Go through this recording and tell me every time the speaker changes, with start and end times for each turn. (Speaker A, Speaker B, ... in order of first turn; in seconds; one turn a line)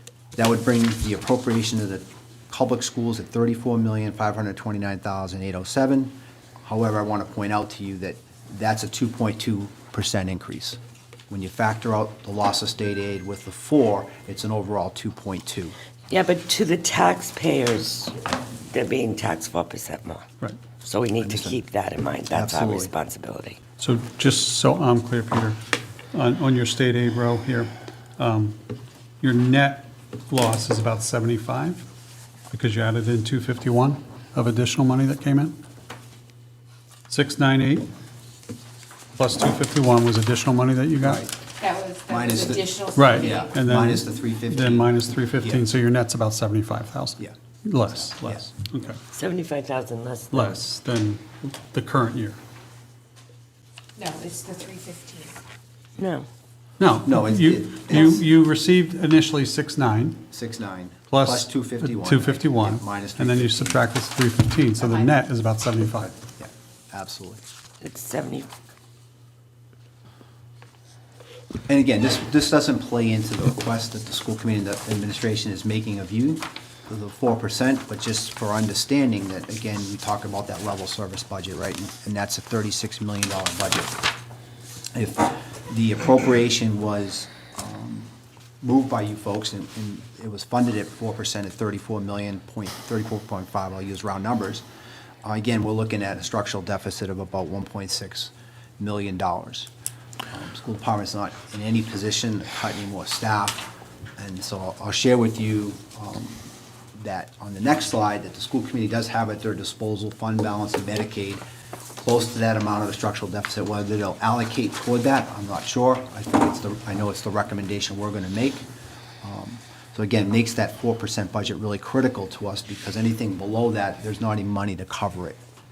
Speaker A: 0.3-10.8
Speaker A: 11.3-15.8
Speaker B: 16.1-18.1
Speaker B: 18.7-20.2
Speaker B: 20.8-23.6
Speaker A: 21.2-21.6
Speaker A: 22.3-22.9
Speaker C: 23.8-25.6
Speaker C: 26.1-28.6
Speaker C: 29.2-31.8
Speaker C: 32.5-35.5
Speaker C: 37.1-37.9
Speaker C: 39.1-41.2
Speaker A: 41.0-41.3
Speaker D: 41.6-43.5
Speaker A: 42.1-45.7
Speaker C: 43.0-49.0
Speaker A: 47.8-48.5
Speaker B: 49.1-50.6
Speaker C: 50.3-52.4
Speaker D: 54.0-55.3
Speaker B: 56.0-56.3
Speaker C: 56.8-60.2
Speaker A: 57.0-58.2
Speaker A: 60.3-63.8
Speaker C: 61.1-66.1
Speaker D: 64.8-65.1
Speaker A: 66.1-67.4
Speaker B: 67.8-68.5
Speaker A: 71.7-84.0
Speaker A: 84.9-88.1
Speaker A: 88.6-94.6
Speaker A: 95.2-99.7
Speaker A: 100.3-106.4
Speaker A: 106.9-111.4
Speaker A: 112.0-118.7
Speaker A: 119.2-125.4